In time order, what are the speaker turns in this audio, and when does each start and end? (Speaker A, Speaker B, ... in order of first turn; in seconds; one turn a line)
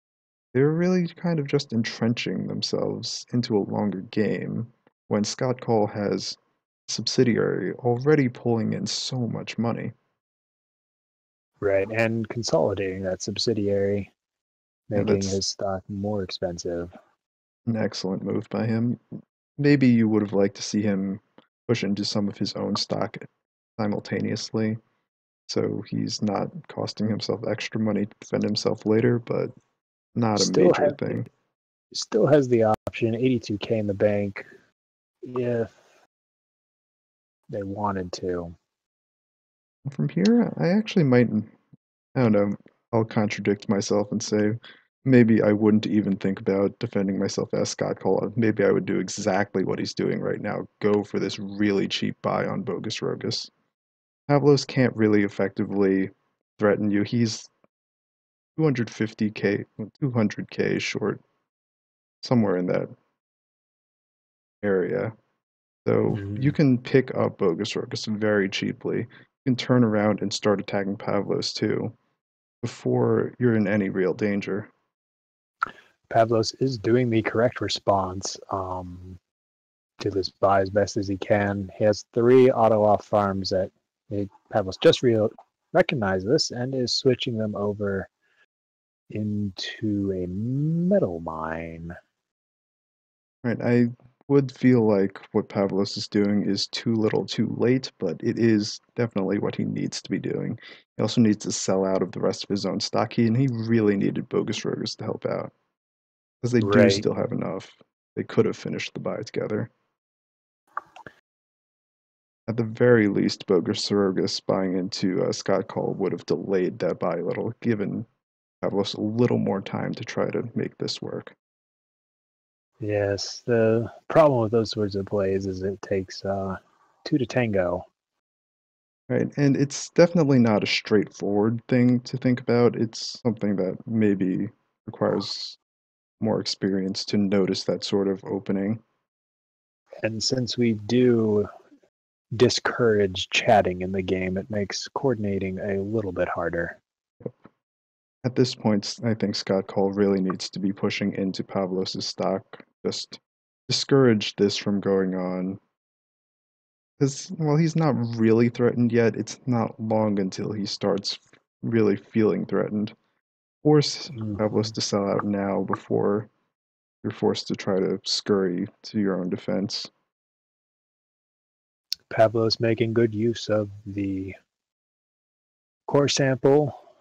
Speaker A: 0.5-9.9
Speaker B: 11.6-14.1
Speaker B: 14.9-16.9
Speaker A: 14.9-15.4
Speaker A: 17.7-19.0
Speaker A: 19.6-24.8
Speaker A: 25.5-29.6
Speaker A: 30.1-31.3
Speaker B: 30.3-31.2
Speaker B: 31.9-34.5
Speaker B: 35.2-35.8
Speaker B: 37.5-38.5
Speaker A: 39.9-41.5
Speaker A: 42.1-53.5
Speaker A: 54.3-57.5
Speaker A: 58.6-61.2
Speaker A: 62.2-62.9
Speaker A: 64.6-65.1
Speaker A: 65.8-72.0
Speaker B: 66.1-66.5
Speaker A: 72.6-74.7
Speaker B: 76.1-79.2
Speaker B: 80.0-88.1
Speaker B: 89.1-92.0
Speaker A: 93.4-105.5
Speaker A: 106.4-109.7
Speaker B: 106.6-107.0
Speaker A: 112.5-118.1
Speaker A: 118.6-121.3
Speaker B: 122.8-127.9
Speaker A: 129.1-135.6
Speaker A: 136.2-138.8
Speaker B: 140.0-141.5
Speaker B: 142.3-146.8
Speaker A: 148.2-155.6
Speaker A: 157.0-162.9
Speaker A: 163.6-166.3
Speaker B: 164.1-164.7
Speaker A: 167.0-169.9
Speaker B: 172.1-174.3
Speaker B: 175.9-176.8